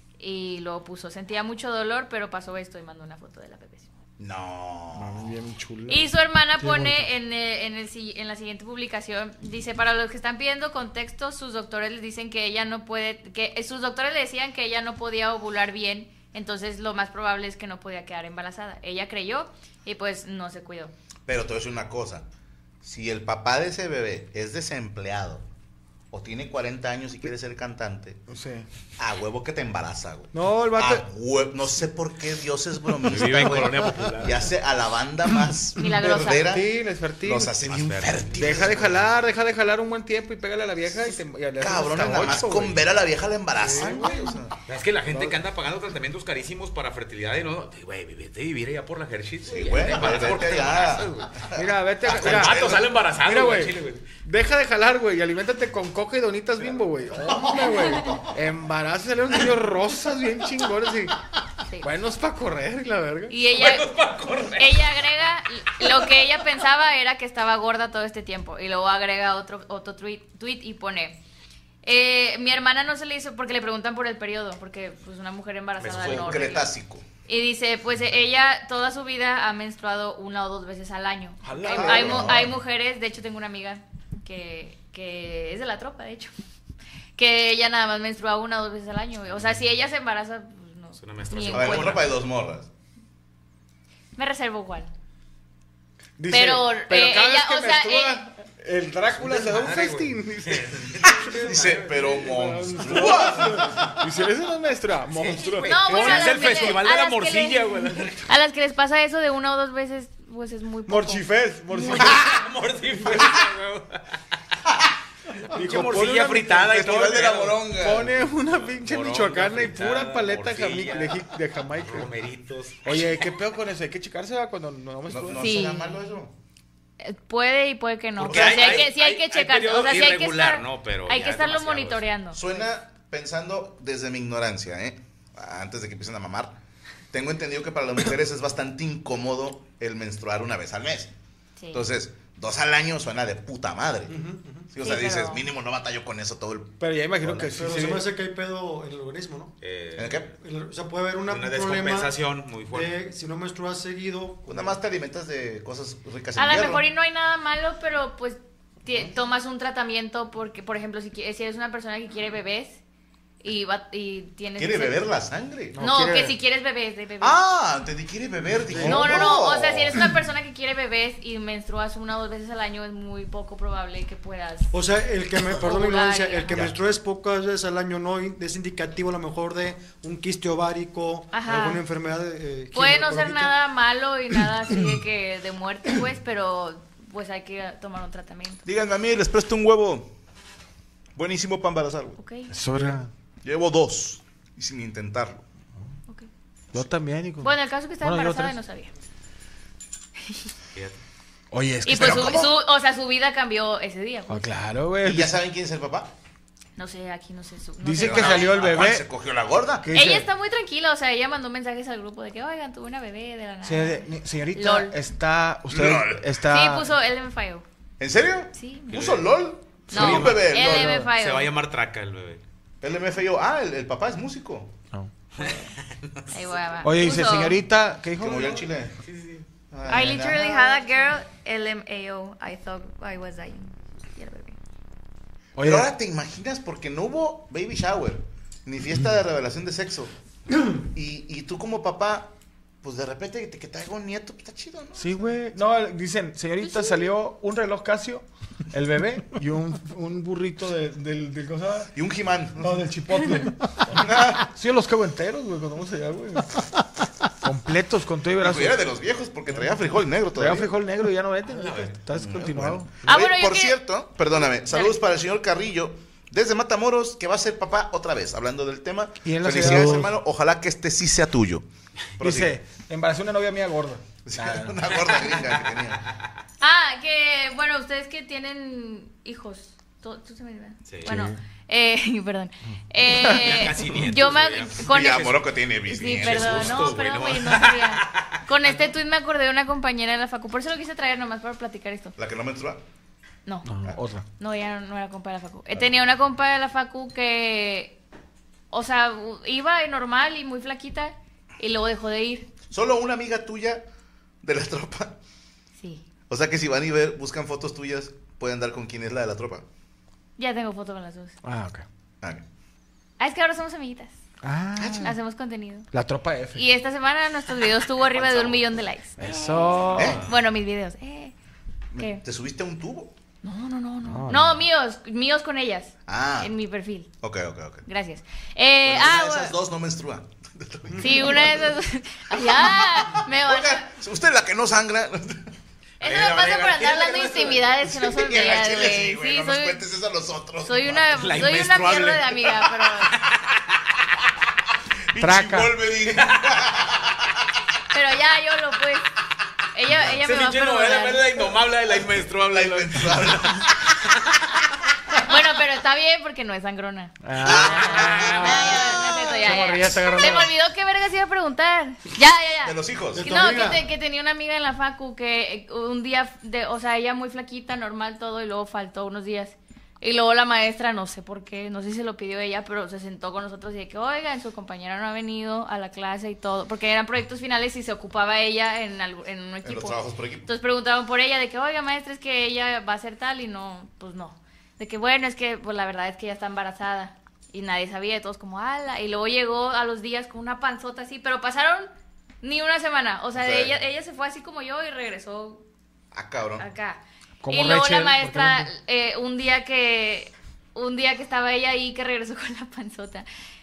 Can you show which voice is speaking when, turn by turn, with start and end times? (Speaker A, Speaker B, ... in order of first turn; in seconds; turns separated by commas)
Speaker A: 0.2-3.9, Speaker B: 4.2-5.3, Speaker C: 4.9-6.1, Speaker A: 5.9-20.9, Speaker D: 6.6-7.0, Speaker B: 21.3-22.2, Speaker B: 22.8-25.4, Speaker B: 26.1-28.2, Speaker C: 28.3-28.6, Speaker B: 29.0-39.1, Speaker C: 30.3-31.0, Speaker E: 33.1-34.5, Speaker A: 35.8-36.5, Speaker C: 36.5-37.5, Speaker E: 37.6-39.1, Speaker C: 38.4-42.8, Speaker B: 41.6-44.5, Speaker C: 43.6-44.2, Speaker E: 44.6-51.3, Speaker B: 49.5-52.9, Speaker C: 51.5-61.2, Speaker E: 52.0-54.1, Speaker C: 61.8-63.3, Speaker A: 63.3-64.0, Speaker E: 63.5-64.9, Speaker A: 64.6-71.2, Speaker A: 71.8-76.7, Speaker E: 75.8-76.5, Speaker B: 75.9-77.1, Speaker A: 77.2-86.3, Speaker C: 81.4-82.3, Speaker B: 81.7-82.5, Speaker A: 87.2-92.1, Speaker E: 90.9-92.1, Speaker B: 91.5-92.7, Speaker A: 94.2-94.9, Speaker C: 96.2-106.7, Speaker A: 96.3-98.2, Speaker E: 99.1-102.0, Speaker B: 101.4-103.8, Speaker E: 103.0-103.3, Speaker E: 105.1-108.2, Speaker A: 105.6-107.7, Speaker A: 108.2-112.1, Speaker C: 110.9-112.4, Speaker E: 111.8-114.0, Speaker E: 115.3-117.7, Speaker C: 115.5-116.7, Speaker B: 116.5-118.2, Speaker C: 117.7-122.2, Speaker E: 118.4-123.2, Speaker C: 122.8-125.5, Speaker B: 125.1-126.3, Speaker A: 125.4-126.0, Speaker A: 127.0-132.4, Speaker E: 128.2-132.1, Speaker B: 128.2-128.8, Speaker B: 132.3-136.6, Speaker B: 137.1-141.1, Speaker A: 141.6-141.8, Speaker B: 141.7-144.1, Speaker D: 144.1-144.7, Speaker B: 144.7-147.6, Speaker A: 144.8-145.4, Speaker C: 146.8-148.1, Speaker D: 147.4-149.6, Speaker E: 149.6-150.3, Speaker B: 149.9-150.3, Speaker D: 150.4-152.1, Speaker E: 151.2-152.9, Speaker D: 152.7-154.8, Speaker B: 154.5-156.9, Speaker A: 156.4-162.8, Speaker A: 163.4-165.1, Speaker B: 164.6-165.8, Speaker C: 165.7-166.3, Speaker A: 165.8-167.4, Speaker B: 167.2-170.0, Speaker D: 168.7-169.2, Speaker A: 168.8-174.7, Speaker D: 174.7-183.5, Speaker A: 175.5-176.7, Speaker A: 181.3-181.8, Speaker A: 182.7-188.6, Speaker B: 188.7-190.1, Speaker B: 191.2-192.2, Speaker A: 192.2-192.5, Speaker C: 192.5-193.1, Speaker B: 192.7-195.4, Speaker C: 196.7-198.6, Speaker A: 197.4-198.9, Speaker E: 200.7-201.0, Speaker C: 201.5-202.5, Speaker A: 201.8-204.5, Speaker B: 201.9-202.5, Speaker C: 204.3-205.3, Speaker B: 205.0-206.1, Speaker A: 206.8-208.8, Speaker C: 207.8-209.1, Speaker B: 208.0-209.9, Speaker C: 209.8-210.3, Speaker A: 209.9-214.9, Speaker C: 213.6-216.9, Speaker B: 215.7-216.4, Speaker A: 216.4-217.7, Speaker B: 218.0-221.0, Speaker A: 218.6-219.2, Speaker E: 218.9-219.2, Speaker A: 219.9-221.5, Speaker E: 219.9-222.4, Speaker B: 222.8-224.7, Speaker C: 224.9-225.4, Speaker E: 225.4-226.6, Speaker A: 226.3-227.6, Speaker C: 226.8-228.7, Speaker B: 228.2-229.0, Speaker E: 229.0-229.4, Speaker B: 229.7-230.8, Speaker A: 229.9-234.6, Speaker C: 235.6-235.9, Speaker B: 235.6-240.1, Speaker B: 240.8-245.3, Speaker C: 245.0-251.9, Speaker B: 251.9-252.9, Speaker C: 252.6-256.7, Speaker B: 253.9-254.5, Speaker C: 257.4-258.8, Speaker B: 258.4-260.7, Speaker C: 260.3-263.1, Speaker E: 261.5-262.0, Speaker B: 262.1-271.7, Speaker A: 263.1-263.8, Speaker A: 264.7-264.9, Speaker C: 269.2-270.1, Speaker B: 272.2-272.6, Speaker C: 272.2-274.8, Speaker B: 274.2-276.0, Speaker E: 275.0-275.8, Speaker A: 276.6-292.1, Speaker E: 280.9-281.2, Speaker C: 281.1-281.3, Speaker E: 283.2-285.4, Speaker B: 284.8-286.9, Speaker E: 286.0-288.9, Speaker B: 292.2-292.8, Speaker C: 293.6-294.2, Speaker A: 294.4-297.9, Speaker A: 298.7-302.5, Speaker B: 302.7-303.8, Speaker B: 304.4-305.2, Speaker A: 305.8-306.0, Speaker B: 306.3-309.6, Speaker A: 310.4-311.4, Speaker C: 311.4-311.8, Speaker A: 313.2-314.1, Speaker C: 314.4-315.1, Speaker B: 314.8-315.1, Speaker A: 315.0-315.9, Speaker C: 315.9-316.6, Speaker A: 316.6-321.3, Speaker B: 318.2-318.5, Speaker C: 319.2-320.2, Speaker B: 319.9-320.2, Speaker B: 321.9-323.1, Speaker A: 322.0-322.2, Speaker A: 323.4-327.1, Speaker C: 324.1-324.6, Speaker B: 326.1-326.5, Speaker B: 327.2-327.8, Speaker A: 327.9-329.5, Speaker B: 328.8-331.8, Speaker A: 331.0-333.9, Speaker B: 332.3-335.5, Speaker A: 336.0-339.8, Speaker E: 336.0-337.8, Speaker B: 338.0-341.1, Speaker A: 340.6-343.2, Speaker E: 341.1-343.8, Speaker B: 345.1-347.4, Speaker C: 345.2-345.7, Speaker E: 346.0-346.6, Speaker A: 347.9-349.1, Speaker A: 349.7-351.6, Speaker E: 350.1-353.7, Speaker B: 352.4-353.9, Speaker A: 355.1-391.9, Speaker C: 357.2-360.5, Speaker B: 357.4-359.3, Speaker B: 362.6-363.3, Speaker D: 363.1-363.8, Speaker B: 379.6-380.5, Speaker A: 392.4-395.6, Speaker B: 393.4-393.7, Speaker B: 396.1-396.6, Speaker A: 396.6-403.2, Speaker C: 397.4-398.7